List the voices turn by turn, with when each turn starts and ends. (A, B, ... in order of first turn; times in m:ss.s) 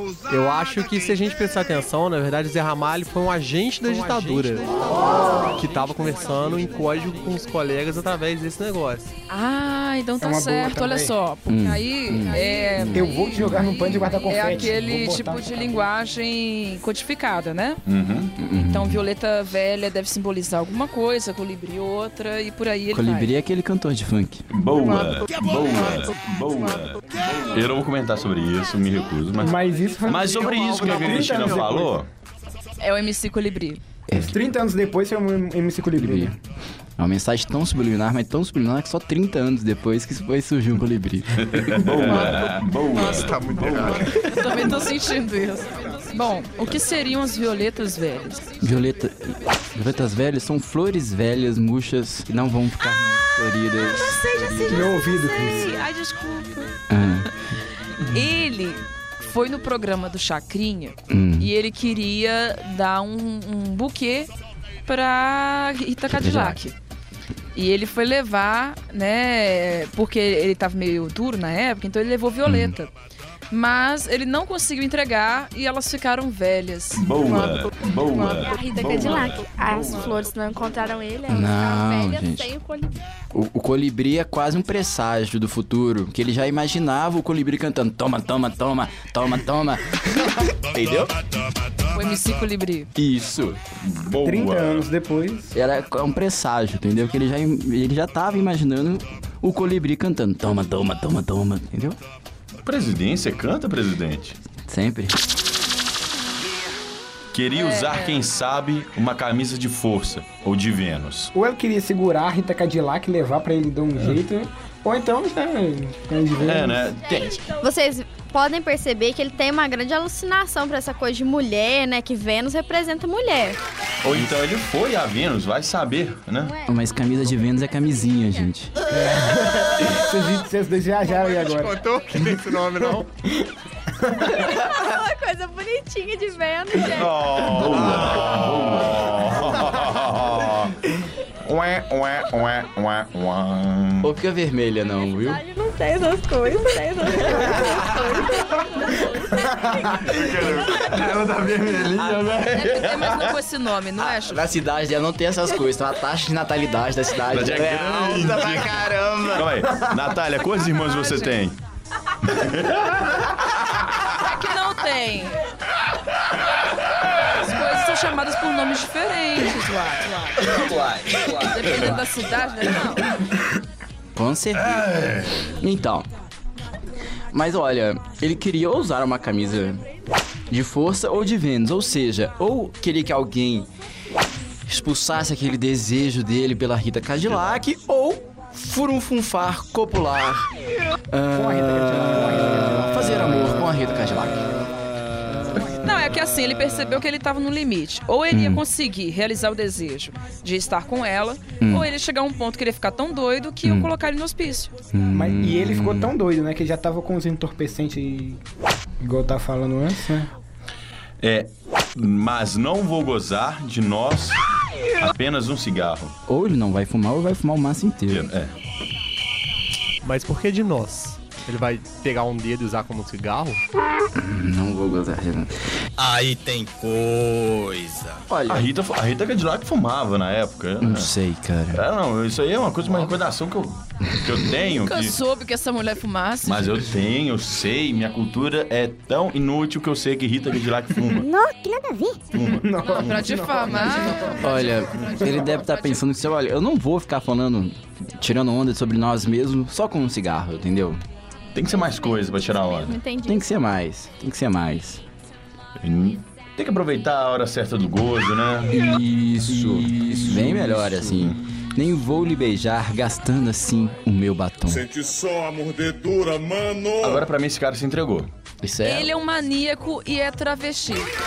0:00.3-0:09.1 A
0:09.3-0:17.8 B
0:10.2-0:11.1 C
0:11.5-0:13.9 D
0:12.8-0:15.8 C
0:17.8-0:18.3 E
0:18.4-0:19.0 D
0:18.6-0:23.3 B
0:22.9-0:24.4 D
0:24.5-0:32.1 E
0:29.4-0:31.9 C
0:30.5-0:31.3 A
0:32.8-0:33.8 B
0:34.1-0:34.4 D
0:34.1-0:36.3 C
0:36.0-0:36.4 D
0:37.0-0:42.1 D
0:41.5-0:44.2 E
0:43.4-0:43.8 F
0:44.1-0:48.5 B
0:48.6-0:54.9 D
0:54.0-0:55.5 G
0:54.7-0:55.7 C
0:55.0-0:56.7 B
0:56.9-0:57.3 D
0:58.0-1:04.3 B
1:01.1-1:01.5 D
1:04.8-1:06.7 B
1:06.1-1:06.6 D
1:07.5-1:12.9 B
1:12.4-1:12.7 D
1:13.5-1:17.0 B
1:16.9-1:20.2 E
1:18.1-1:23.0 G
1:21.3-1:22.5 D
1:23.3-1:31.2 D
1:31.9-1:32.9 B
1:33.0-1:33.6 D
1:33.8-1:34.9 E
1:34.2-1:35.5 C
1:35.5-1:42.0 D
1:42.6-1:44.4 E
1:44.7-1:45.2 D
1:47.3-1:51.3 E
1:47.5-1:48.2 B
1:51.3-1:56.9 C
1:56.4-1:57.5 E
1:57.6-2:03.6 H
2:04.0-2:06.5 E
2:06.6-2:08.7 D
2:08.9-2:12.5 C
2:11.0-2:13.1 A
2:14.0-2:14.4 C
2:14.4-2:17.0 H
2:16.9-2:20.8 E
2:21.4-2:24.1 E
2:24.0-2:25.4 D
2:25.3-2:29.8 H
2:26.0-2:29.0 G
2:29.7-2:33.3 E
2:32.5-2:34.5 B
2:34.0-2:39.7 D
2:37.3-2:41.6 E
2:40.7-2:41.3 B
2:42.2-2:43.6 E
2:44.1-2:45.4 B
2:47.1-2:50.7 B
2:50.4-2:52.0 E
2:51.2-2:53.1 B
2:54.1-2:54.9 D
2:54.6-2:55.5 E
2:55.6-2:56.1 D
2:57.3-2:59.8 D
3:00.5-3:03.7 D
3:04.7-3:10.5 D
3:11.1-3:14.5 D
3:11.3-3:13.2 C
3:15.8-3:24.7 B
3:18.3-3:18.6 D
3:21.6-3:21.9 D
3:23.6-3:23.9 D
3:24.9-3:26.1 D
3:25.1-3:28.4 C
3:29.0-3:30.3 C
3:31.2-3:34.4 E
3:35.0-3:36.1 E
3:36.3-3:38.3 D
3:38.1-3:38.5 E
3:40.0-3:43.6 A
3:44.1-3:45.6 D
3:46.0-3:48.2 I
3:48.3-3:48.7 D
3:48.5-3:51.1 E
3:50.8-3:51.8 D
3:51.7-3:55.2 E
3:54.6-3:56.8 B
3:56.4-4:01.3 E
4:01.6-4:02.0 H
4:02.3-4:02.7 E
4:02.4-4:04.6 C
4:02.8-4:06.0 B
4:04.4-4:11.0 D
4:11.5-4:13.0 E
4:12.7-4:13.4 H
4:13.2-4:15.0 D
4:15.8-4:18.8 E
4:18.7-4:24.8 D
4:19.5-4:21.4 E
4:24.6-4:27.3 F
4:27.0-4:28.3 E
4:28.6-4:29.1 D
4:28.8-4:31.1 B